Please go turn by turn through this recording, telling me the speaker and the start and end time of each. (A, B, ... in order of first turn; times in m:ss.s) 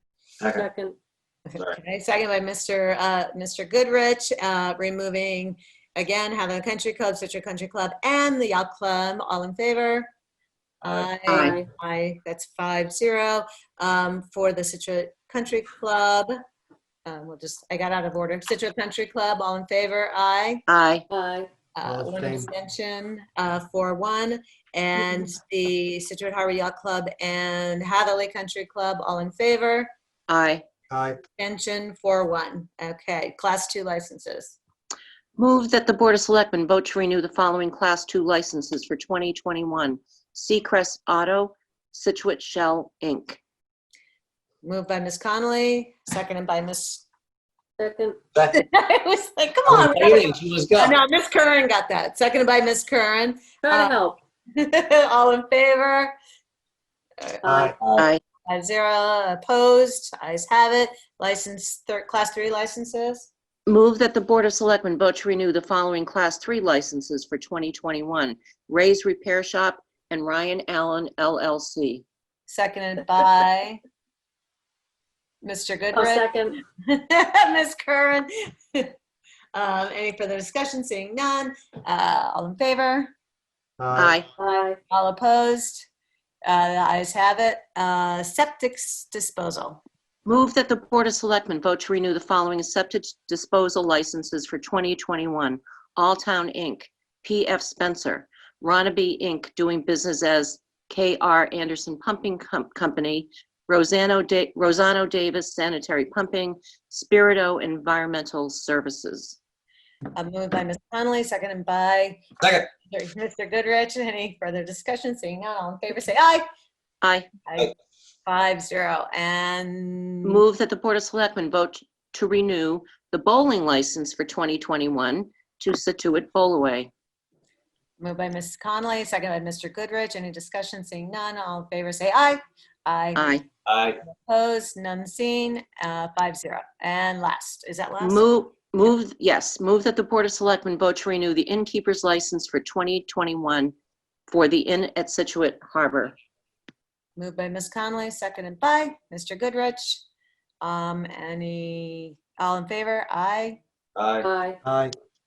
0:00.4-0:00.7 A
0:00.5-0:01.0 B
0:01.5-0:10.1 C
0:10.8-0:16.3 C
0:11.3-0:11.6 D
0:11.3-0:11.7 B
0:17.1-0:20.6 C
0:20.7-0:21.0 D
0:21.1-0:21.5 B
0:21.8-0:29.9 C
0:21.8-0:22.5 E
0:30.3-0:30.6 D
0:30.9-0:31.2 E
0:31.4-0:34.6 C
0:35.4-0:43.4 D
0:44.6-0:47.0 C
0:47.8-0:48.2 B
0:48.5-0:54.0 C
0:49.7-0:51.0 A
0:53.6-0:54.2 B
0:54.6-0:56.1 C
0:57.2-0:57.6 C
0:57.4-0:57.8 E
0:57.4-0:57.8 B
0:57.8-0:58.1 A
0:58.5-1:03.3 C
1:03.7-1:12.0 D
1:12.5-1:13.8 C
1:15.4-1:18.9 C
1:15.9-1:16.6 B
1:19.5-1:23.1 C
1:23.8-1:24.1 E
1:24.0-1:24.3 D
1:24.4-1:24.8 B
1:24.9-1:25.9 C
1:26.5-1:29.8 C
1:30.3-1:49.4 D
1:50.2-1:52.3 C
1:52.4-1:52.7 A
1:52.9-1:56.4 C
1:57.0-1:57.3 D
1:57.5-1:57.7 C
1:58.3-2:00.4 C
2:00.2-2:06.9 D
2:08.0-2:13.4 C
2:13.2-2:13.5 D
2:13.7-2:14.0 A
2:14.1-2:18.3 C
2:18.0-2:23.7 D
2:24.3-2:26.1 D
2:27.2-2:30.0 C
2:30.6-2:33.6 C
2:34.0-2:34.3 A
2:34.2-2:34.6 B
2:34.6-2:34.9 E